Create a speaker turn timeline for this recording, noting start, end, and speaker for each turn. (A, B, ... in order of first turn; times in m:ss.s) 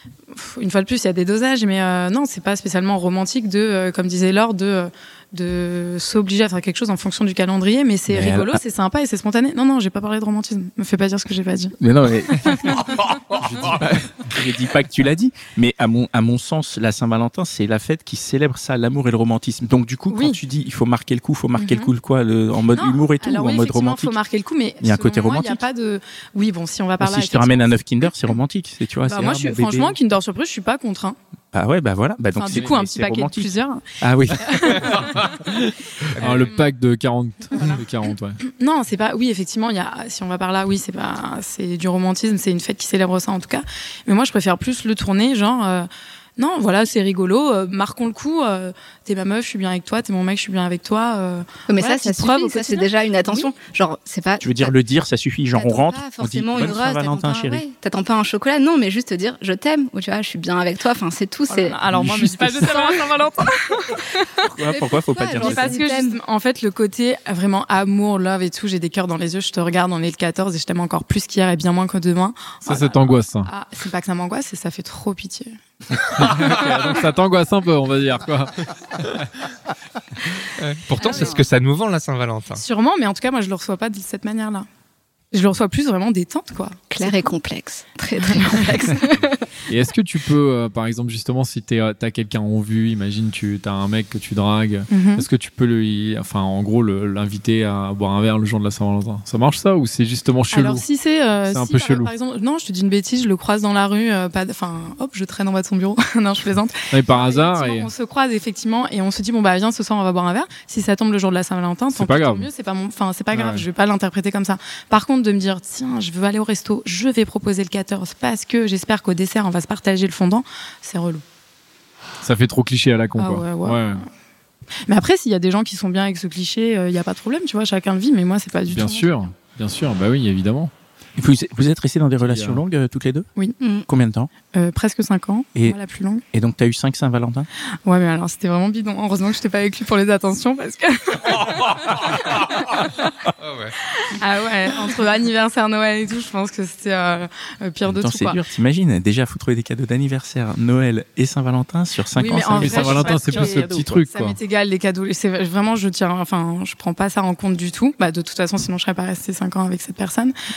0:00.3-0:11.7 A
0:08.1-0:08.6 B
0:11.8-0:24.2 B
0:12.4-0:13.0 A
0:20.1-0:20.4 A
0:21.6-0:21.9 A
0:22.7-0:27.7 A
0:24.8-0:25.6 B
0:27.0-0:30.0 B
0:29.0-0:31.2 A
0:31.5-0:35.2 B
0:32.3-0:33.8 A
0:34.4-0:35.2 A
0:36.1-0:36.5 C
0:36.2-0:38.4 D
0:38.5-0:53.5 A
0:51.7-0:54.7 E
0:54.4-0:57.6 B
0:55.5-1:01.8 E
1:01.5-1:04.4 A
1:01.9-1:02.7 B
1:02.5-1:03.1 E
1:04.4-1:05.8 B
1:04.7-1:06.2 E
1:05.4-1:15.6 A
1:12.6-1:13.5 D
1:16.0-1:19.2 D
1:20.6-1:22.6 C
1:21.0-1:21.4 A
1:22.5-1:24.6 A
1:25.3-1:27.3 A
1:26.9-1:29.5 E
1:29.7-1:40.8 D
1:34.9-1:35.2 A
1:40.5-2:01.2 A
1:41.5-1:42.1 D
1:46.9-1:47.9 D
1:51.9-1:52.5 D
1:53.3-1:53.6 D
2:02.2-2:04.0 D
2:03.2-2:04.0 A
2:04.9-2:09.1 A
2:08.7-2:10.7 D
2:11.2-2:13.3 B
2:12.2-2:12.6 D
2:13.6-2:13.8 E
2:13.9-2:14.3 B
2:14.5-2:16.2 A
2:16.3-2:17.5 B
2:17.8-2:23.1 A
2:21.7-2:22.8 C
2:23.4-2:23.8 C
2:24.0-2:28.4 A
2:27.8-2:34.0 B
2:32.1-2:40.3 A
2:32.4-2:34.4 D